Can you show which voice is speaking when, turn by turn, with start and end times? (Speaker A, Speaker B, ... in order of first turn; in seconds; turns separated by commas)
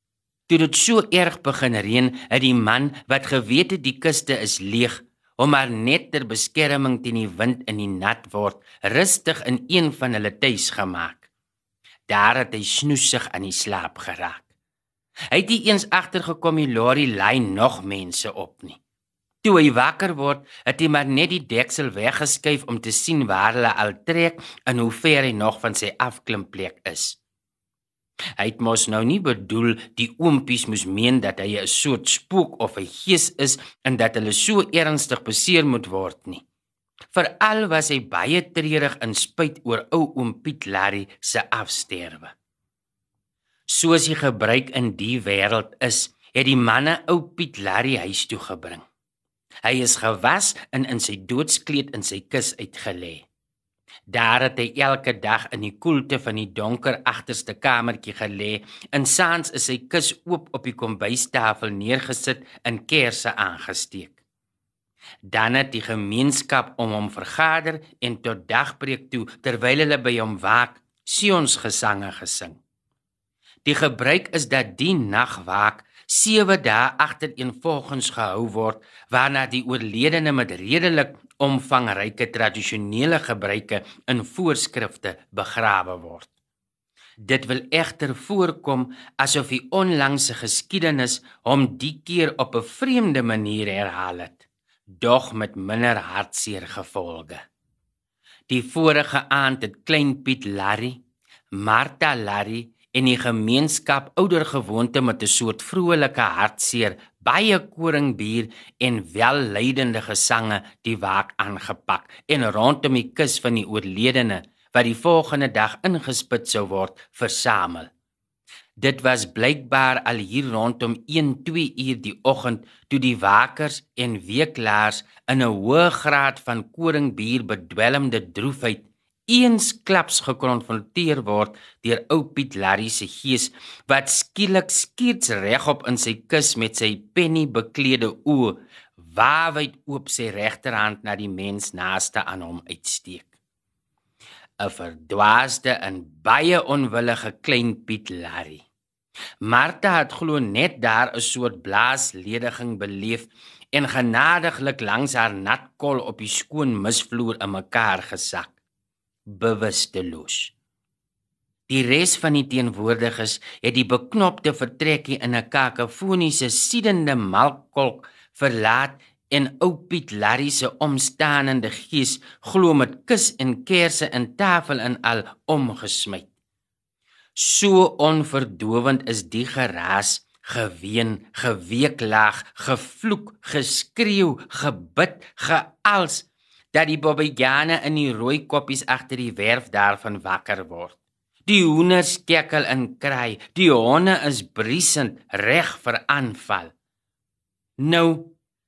Speaker A: 0.5-11.2, Speaker A: 12.1-14.5, Speaker A: 15.3-18.8, Speaker A: 19.4-27.2, Speaker A: 28.4-36.4, Speaker A: 37.1-42.3, Speaker A: 43.7-48.8, Speaker A: 49.6-53.3, Speaker A: 54.1-64.2, Speaker A: 65.2-72.6, Speaker A: 73.7-86.3, Speaker A: 87.3-94.4, Speaker A: 95.0-97.4, Speaker A: 98.5-101.0, Speaker A: 101.5-117.9, Speaker A: 118.8-143.3, Speaker A: 144.6-148.6, Speaker A: 149.4-158.5, Speaker A: 159.3-160.5, Speaker A: 161.7-176.3, Speaker A: 177.4-196.7, Speaker A: 197.8-198.3